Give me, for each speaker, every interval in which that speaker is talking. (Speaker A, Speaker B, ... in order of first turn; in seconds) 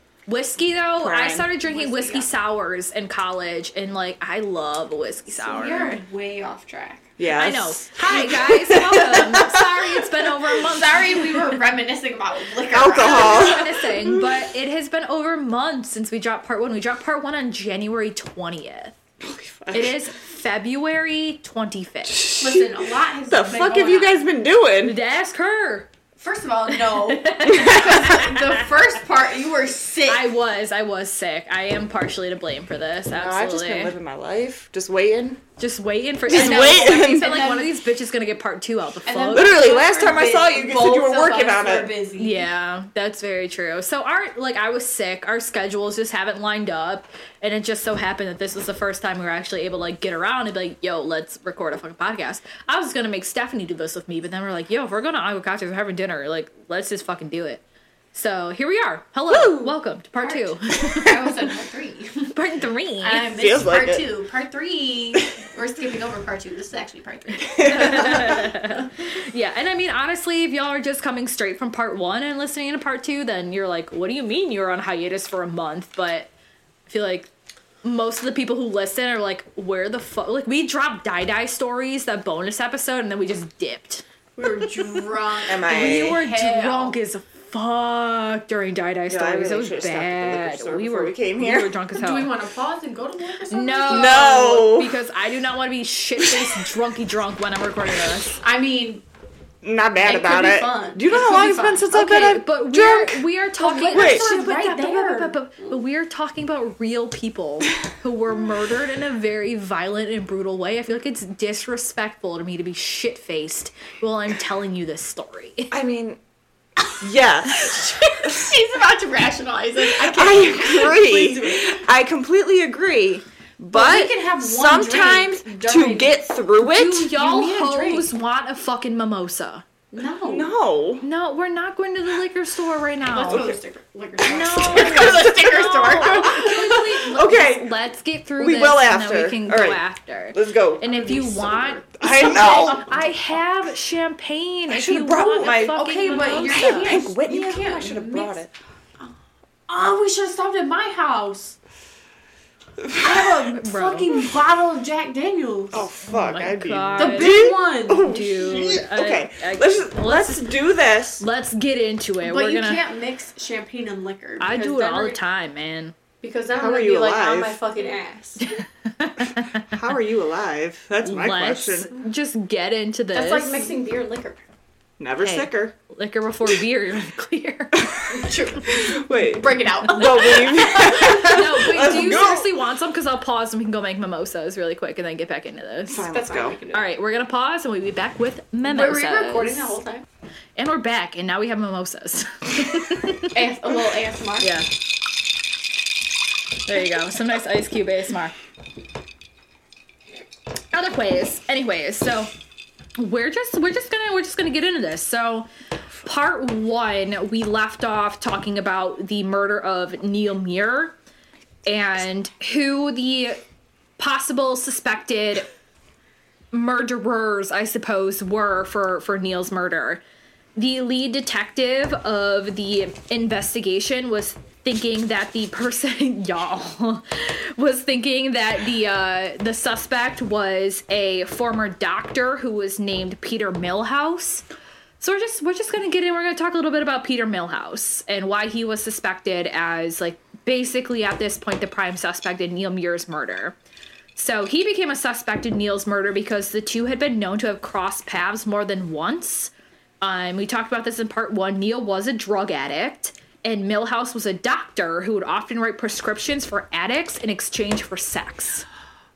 Speaker A: 0.3-6.0, 7.3-11.3, 13.0-18.9, 19.7-22.3, 24.8-25.9, 26.7-28.6, 30.1-33.9, 35.6-39.5, 42.2-57.6, 58.1-61.1, 62.3-63.3, 67.5-76.3, 76.9-77.3, 77.8-84.0, 85.6-92.3, 93.5-98.4, 101.9-115.7, 126.6-129.7, 131.0-133.5, 134.3-147.0, 153.5-154.1, 156.0-157.4, 158.0-160.6, 161.2-162.8, 164.4-165.9, 168.4-169.8, 171.0-173.7, 175.2-178.3, 180.8-186.1, 186.7-189.8, 190.6-193.4, 194.4-194.7, 196.7-198.3, 200.7-202.3, 203.0-205.5, 206.0-211.0, 211.7-213.4, 214.0-215.5, 216.5-220.0, 220.6-234.4, 235.0-243.6, 244.2-258.7
Speaker B: 1.0-1.5, 7.2-9.5, 12.7-14.2, 19.2-20.0, 22.1-25.0, 27.5-27.8, 33.1-35.4, 36.3-37.5, 39.3-41.9, 59.3-59.8, 63.3-64.1, 67.6-68.2, 85.5-86.2, 89.1-91.7, 93.9-95.0, 96.2-96.7, 99.6-103.0, 103.9-104.3, 115.7-116.2, 117.0-118.5, 119.8-127.1, 130.2-131.1, 133.3-133.6, 134.2-136.4, 137.1-137.7, 138.4-139.8, 140.3-141.0, 142.0-142.9, 144.7-148.5, 152.8-153.6, 155.7-161.2, 166.6-167.6, 169.6-171.9, 175.0-175.8, 177.8-182.5, 185.9-186.6
Speaker C: 1.6-2.3, 5.3-7.1, 9.1-9.4, 10.6-14.0, 22.4-24.2, 26.2-30.3, 36.3-37.7, 39.1-42.5, 60.2-62.4, 63.0-68.9, 84.4-87.0, 91.9-94.3, 98.4-99.0, 100.0-105.7, 116.9-121.8, 123.7-126.3, 126.9-128.1, 129.9-130.5, 133.1-137.1, 140.9-142.8, 145.4-148.4, 149.7-151.6, 153.0-155.9, 157.0-158.3, 162.2-165.2, 166.2-168.4, 173.1-174.4, 178.1-181.4, 186.0-186.9, 188.6-190.0, 193.3-194.5